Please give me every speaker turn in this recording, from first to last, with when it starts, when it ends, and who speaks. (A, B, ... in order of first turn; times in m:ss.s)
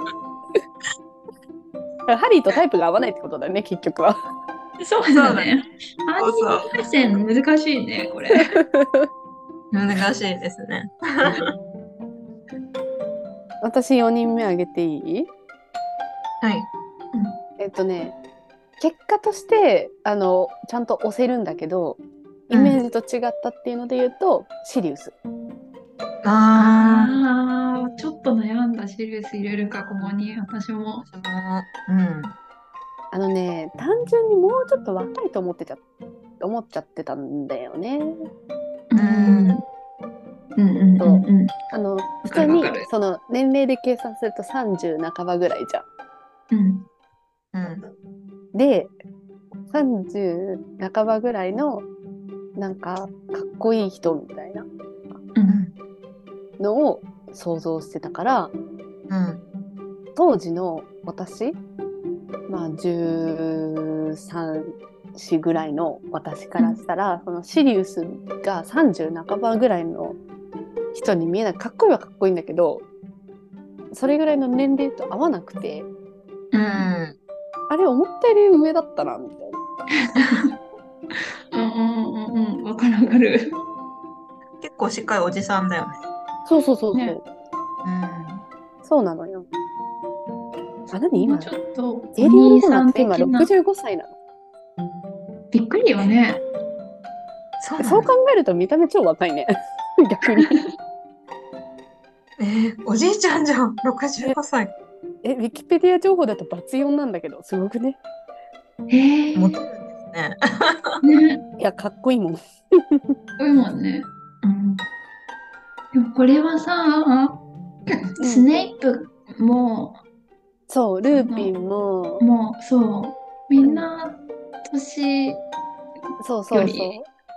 0:02.1-0:04.2 A
0:04.8-0:08.6 B
0:05.1-0:05.5 C
0:06.2-0:06.9 C
0:08.5-0:09.1 A
0:09.7-0:11.5 C
0:13.6-0:15.3 A
0:16.4-0:16.7 C
0:17.1-0:17.4 B
0:17.6-0:18.2 A
0:18.8-0:25.1 A
0:22.5-0:22.8 C
0:26.2-0:27.2 C
0:26.6-0:31.0 B
0:31.0-0:32.4 C
0:33.1-0:35.8 A
0:36.4-0:38.1 A
0:38.9-0:39.6 B
0:39.0-0:39.6 C
0:40.6-0:41.5 B
0:41.0-0:45.8 A
0:42.2-0:42.9 B
0:46.5-0:46.9 B
0:47.5-0:47.8 C
0:48.5-0:48.9 A
0:49.7-0:51.8 A
0:52.6-0:54.7 A
0:55.3-0:55.6 B
0:55.5-0:55.7 C
0:56.6-0:58.5 A
0:59.1-0:59.4 C
1:00.2-1:01.6 A
1:02.5-1:10.2 A
1:10.9-1:12.9 A
1:13.9-1:15.9 A
1:16.5-1:16.9 B
1:16.6-1:17.2 C
1:17.7-1:19.6 A
1:20.0-1:20.5 B
1:21.5-1:23.6 B
1:24.6-1:26.0 C
1:26.5-1:27.2 A
1:27.8-1:28.4 C
1:28.8-1:29.5 A
1:30.9-1:31.5 A
1:31.2-1:33.5 B
1:32.2-1:34.1 A
1:35.5-1:36.4 B
1:37.6-1:38.1 C
1:37.8-1:40.6 A
1:40.4-1:40.6 B
1:42.4-1:44.7 C
1:45.2-1:48.0 A
1:48.9-1:49.6 B
1:49.3-1:51.0 C
1:51.0-1:51.4 B
1:51.6-1:53.1 A
1:53.4-1:54.8 B
1:55.9-1:57.4 B
1:58.1-2:00.0 B
1:58.2-1:58.5 A
2:00.7-2:02.2 A
2:01.1-2:01.5 B
2:02.2-2:05.4 B
2:03.6-2:03.9 A
2:06.2-2:07.1 A
2:06.5-2:06.9 B